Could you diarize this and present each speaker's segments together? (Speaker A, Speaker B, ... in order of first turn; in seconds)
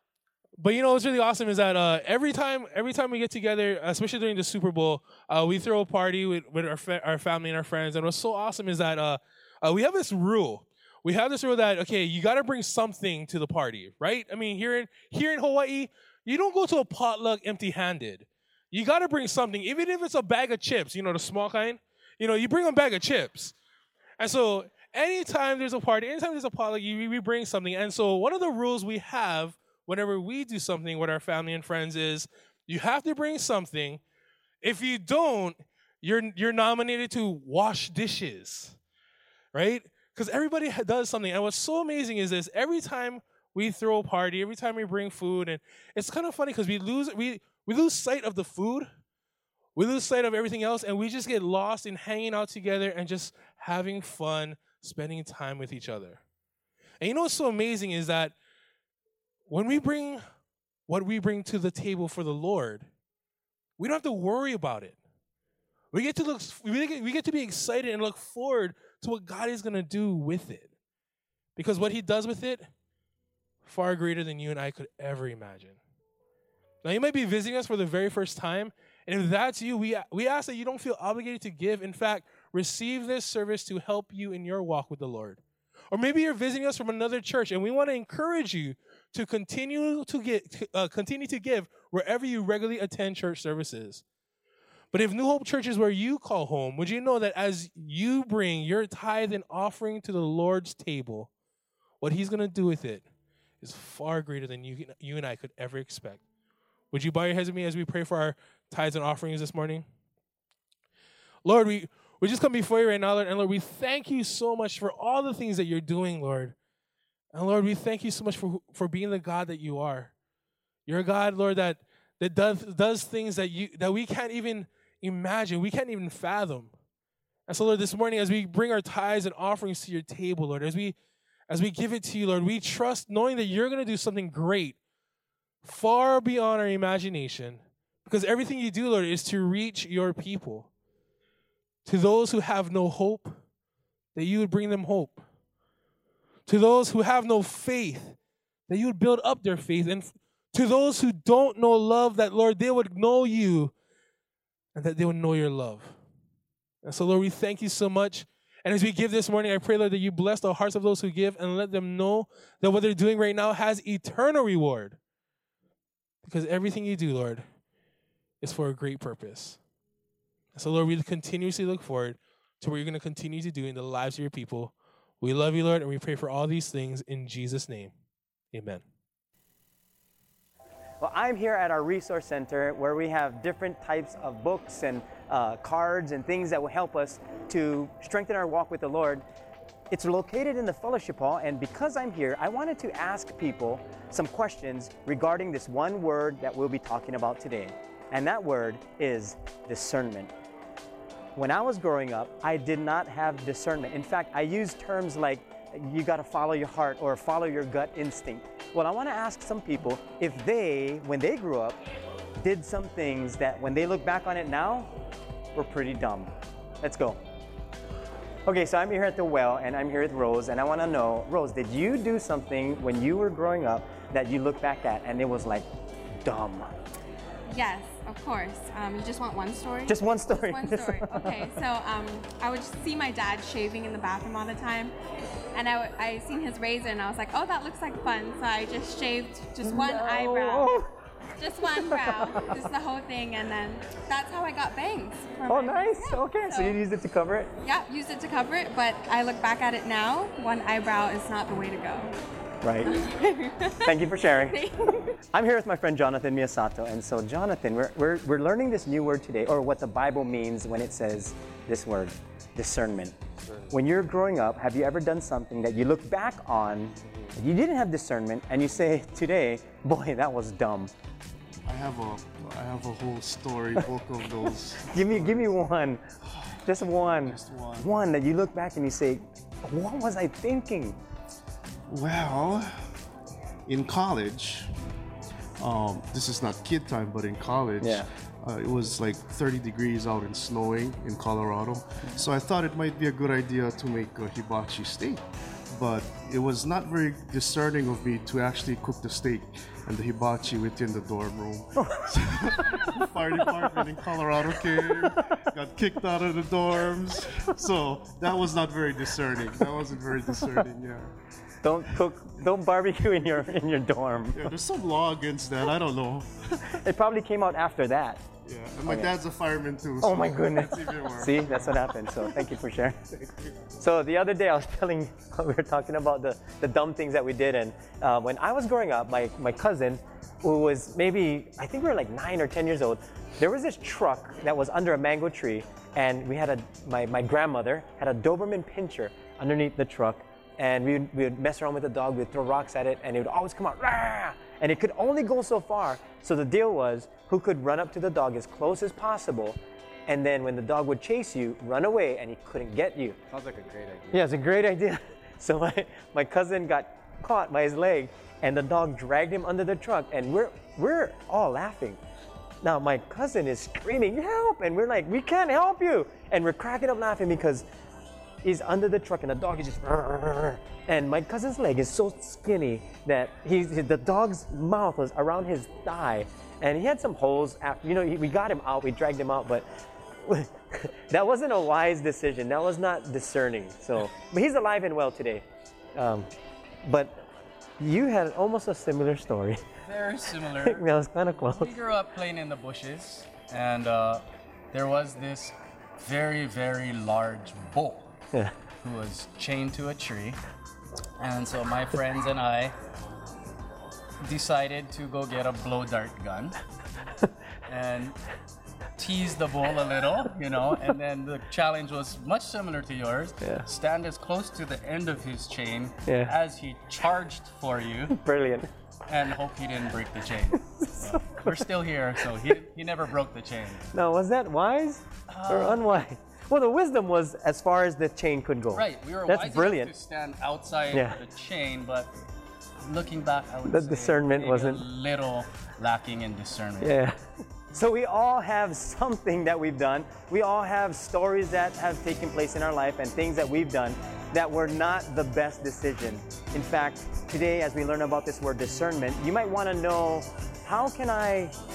Speaker A: 0.6-23.6, 24.2-34.0, 34.6-38.8, 39.5-48.9, 49.8-56.2, 57.0-58.4, 59.5-60.2, 60.9-62.9, 63.8-65.0, 65.9-70.7, 71.6-72.7, 73.7-75.8, 76.8-85.4, 85.9-94.0, 94.9-101.3, 102.0-103.0, 103.6-106.2, 106.9-109.9, 111.5-116.5, 117.3-120.1, 120.9-126.7, 127.5-131.0, 131.5-134.8, 135.6-140.7, 141.8-143.4, 144.2-145.2, 146.5-148.2, 148.7-153.7, 154.8-155.9, 156.8-165.0, 166.2-167.4, 168.4-169.6, 170.5-177.9, 178.5-178.8
Speaker B: 181.0-189.2, 189.9-200.3, 201.3-211.8, 212.4-214.9, 215.6-217.2, 218.5-225.7, 226.2-226.7, 229.9-231.5, 239.6-240.9, 241.6-242.7, 245.4-247.5, 252.6-253.0, 253.8-254.7, 255.3-263.2, 263.7-270.9, 274.5-276.0, 276.6-281.0, 287.8-288.1, 301.8-303.0, 304.7-305.3, 310.3-310.6, 311.6-314.5, 316.7-318.2, 318.8-319.1, 320.0-323.0, 323.8-353.2, 354.1-362.0, 362.6-367.7, 368.4-379.7, 380.2-386.3, 386.8-387.2, 387.8-389.6, 390.6-391.7, 416.1-416.3, 418.1-418.7, 420.7-421.7, 423.9-429.9, 430.9-431.2, 433.6-434.9, 436.8-451.5
Speaker C: 227.5-234.9, 235.6-240.7, 241.4-246.8, 247.6-252.1, 252.8-255.2
Speaker D: 271.6-275.5, 276.3-277.9, 281.9-282.7, 283.7-284.7, 285.6-295.2, 295.7-311.2, 314.3-316.8, 318.4-322.5, 323.2-323.5
Speaker E: 353.3-354.2, 389.9-390.8, 391.4-398.1, 398.8-400.4, 401.2-402.8, 404.2-406.6, 407.6-408.2, 409.0-418.2, 419.1-423.9, 425.3-425.8, 428.8-432.1, 432.8-437.0